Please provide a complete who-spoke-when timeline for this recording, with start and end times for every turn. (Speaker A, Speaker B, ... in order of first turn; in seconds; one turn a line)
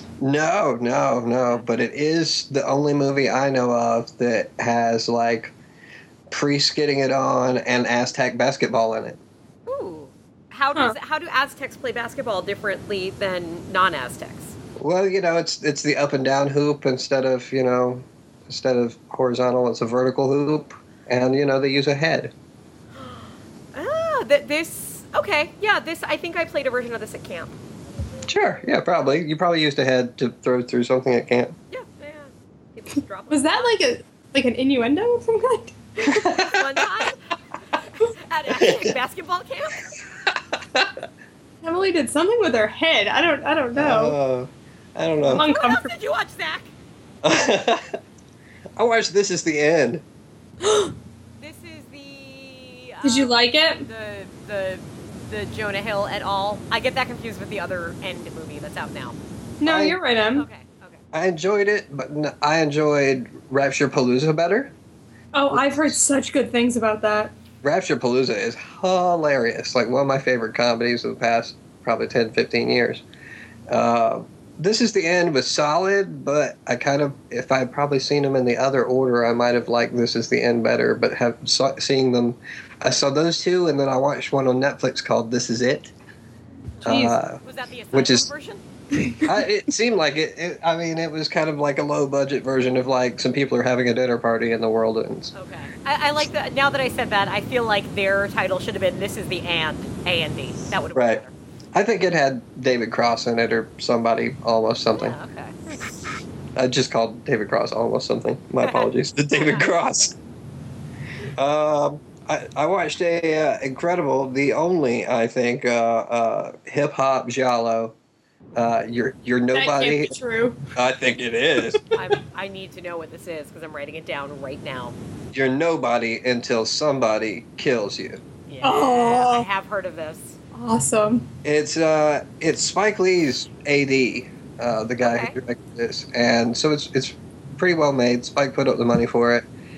Speaker A: 0.2-5.5
Speaker A: 6.3-9.2
Speaker B: 9.7-14.6
Speaker A: 14.8-22.3
Speaker B: 22.9-27.6
Speaker A: 28.3-31.6
Speaker B: 31.7-33.8
Speaker C: 33.3-36.3
Speaker A: 36.1-36.9
Speaker B: 36.3-39.9
Speaker A: 38.5-38.9
Speaker A: 40.4-41.0
Speaker C: 41.6-44.1
Speaker A: 43.8-45.5
Speaker C: 45.3-45.9
Speaker B: 45.4-46.7
Speaker A: 47.2-48.0
Speaker A: 48.8-50.0
Speaker B: 51.4-59.2
Speaker C: 53.0-53.9
Speaker C: 59.6-60.5
Speaker A: 59.6-60.0
Speaker B: 60.4-61.0
Speaker A: 61.1-64.7
Speaker C: 65.3-67.3
Speaker A: 65.5-66.0
Speaker A: 67.6-73.0
Speaker A: 73.7-85.9
Speaker B: 86.8-88.6
Speaker A: 86.8-87.4
Speaker C: 86.9-87.2
Speaker A: 87.9-88.3
Speaker C: 88.9-89.3
Speaker A: 89.2-95.3
Speaker B: 95.3-101.3
Speaker A: 101.0-101.2
Speaker A: 101.7-105.2
Speaker B: 105.0-105.8
Speaker A: 106.6-110.2
Speaker B: 108.6-109.7
Speaker A: 111.4-118.0
Speaker A: 118.6-120.2
Speaker C: 119.5-120.6
Speaker A: 120.8-121.8
Speaker B: 121.9-125.0
Speaker A: 125.3-128.2
Speaker B: 128.5-130.4
Speaker C: 128.6-129.5
Speaker C: 130.5-131.3
Speaker A: 131.4-139.5
Speaker B: 135.0-135.4